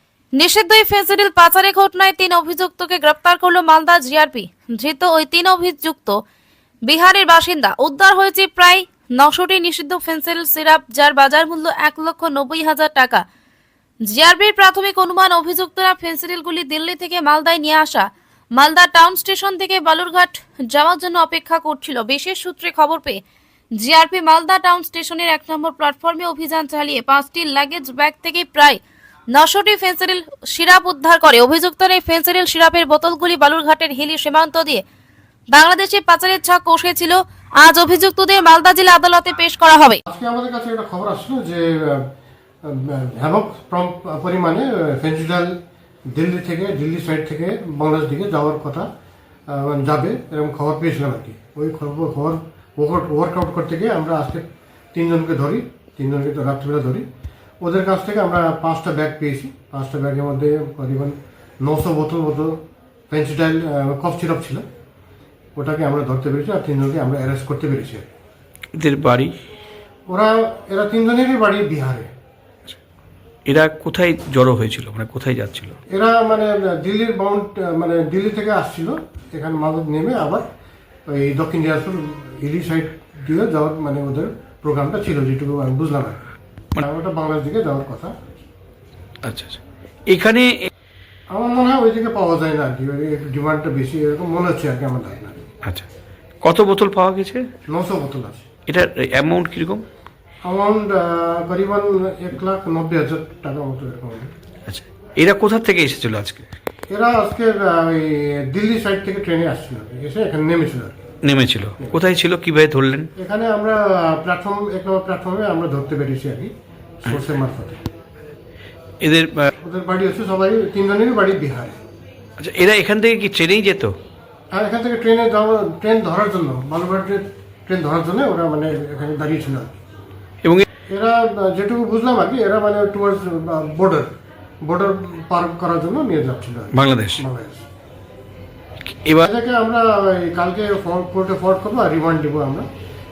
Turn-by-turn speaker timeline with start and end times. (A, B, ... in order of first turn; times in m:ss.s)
0:00.4-0:06.2 A
0:06.8-0:13.2 A
0:14.0-0:23.2 A
0:23.8-0:34.8 A
0:35.5-0:40.0 A
0:40.1-0:42.1 B
0:42.6-0:45.5 B
0:46.1-0:48.8 B
0:49.5-0:57.0 B
0:57.6-1:04.6 B
1:05.6-1:08.0 B
1:08.8-1:09.3 C
1:10.1-1:12.1 B
1:13.5-1:15.8 C
1:15.9-1:20.4 B
1:21.1-1:26.2 B
1:26.8-1:28.1 B
1:29.2-1:30.7 C
1:31.3-1:35.4 B
1:36.4-1:37.5 C
1:37.6-1:38.5 B
1:38.7-1:39.8 C
1:40.4-1:44.3 B
1:44.7-1:46.5 C
1:46.9-1:51.0 B
1:51.2-1:53.1 C
1:53.2-1:56.5 B
1:57.0-1:57.8 B
1:59.0-1:59.5 C
1:59.6-2:01.8 B
2:02.4-2:03.9 C
2:04.5-2:09.7 B
2:10.9-2:14.1 B
2:14.6-2:17.6 B
2:16.7-2:17.2 C
2:19.2-2:22.7 B